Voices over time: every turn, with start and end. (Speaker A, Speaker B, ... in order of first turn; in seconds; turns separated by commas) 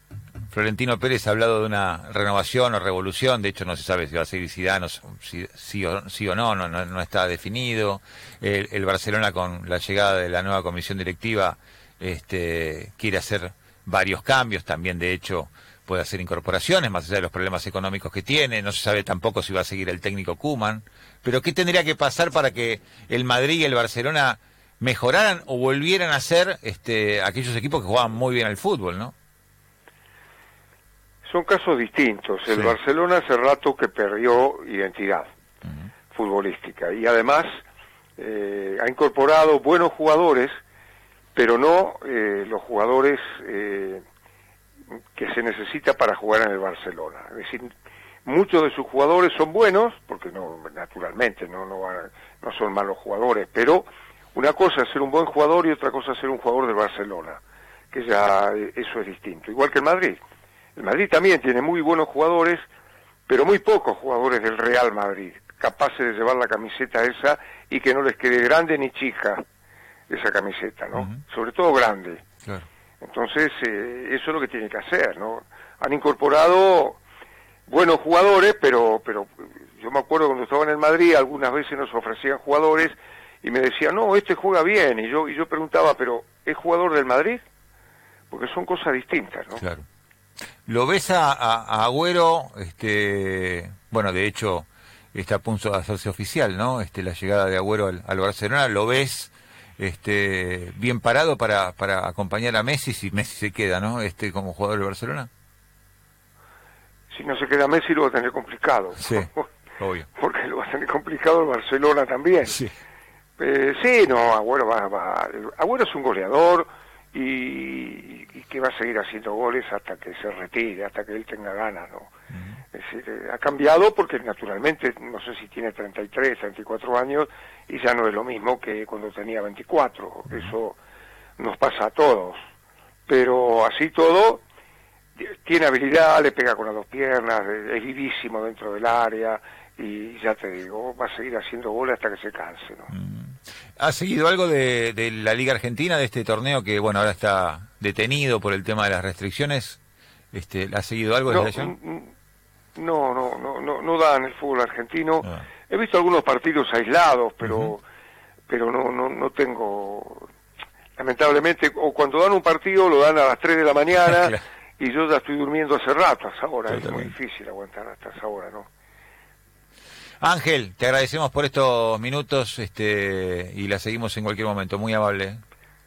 Speaker A: 0.5-29.1, Speaker B: 31.2-35.3, Speaker B: 36.1-37.6, Speaker B: 38.2-40.6, Speaker B: 41.3-44.0, Speaker B: 45.1-47.7, Speaker B: 48.2-57.4, Speaker B: 57.9-60.2, Speaker B: 60.8-62.6, Speaker B: 63.3-69.4, Speaker B: 70.1-72.2, Speaker B: 73.0-77.0, Speaker B: 77.7-87.4, Speaker B: 88.3-89.6, Speaker A: 89.6-89.8, Speaker A: 90.7-105.3, Speaker B: 107.1-109.5, Speaker A: 109.0-110.1, Speaker B: 110.1-112.6, Speaker B: 113.4-122.1, Speaker B: 122.7-130.8, Speaker B: 131.4-132.4, Speaker B: 133.1-134.4, Speaker B: 135.2-142.9, Speaker A: 142.9-149.8, Speaker A: 150.3-151.7, Speaker B: 151.3-152.1, Speaker B: 152.8-157.8, Speaker A: 157.4-157.7, Speaker B: 158.5-160.3, Speaker B: 161.0-168.7, Speaker A: 164.1-164.3, Speaker A: 166.7-167.1, Speaker A: 170.2-175.4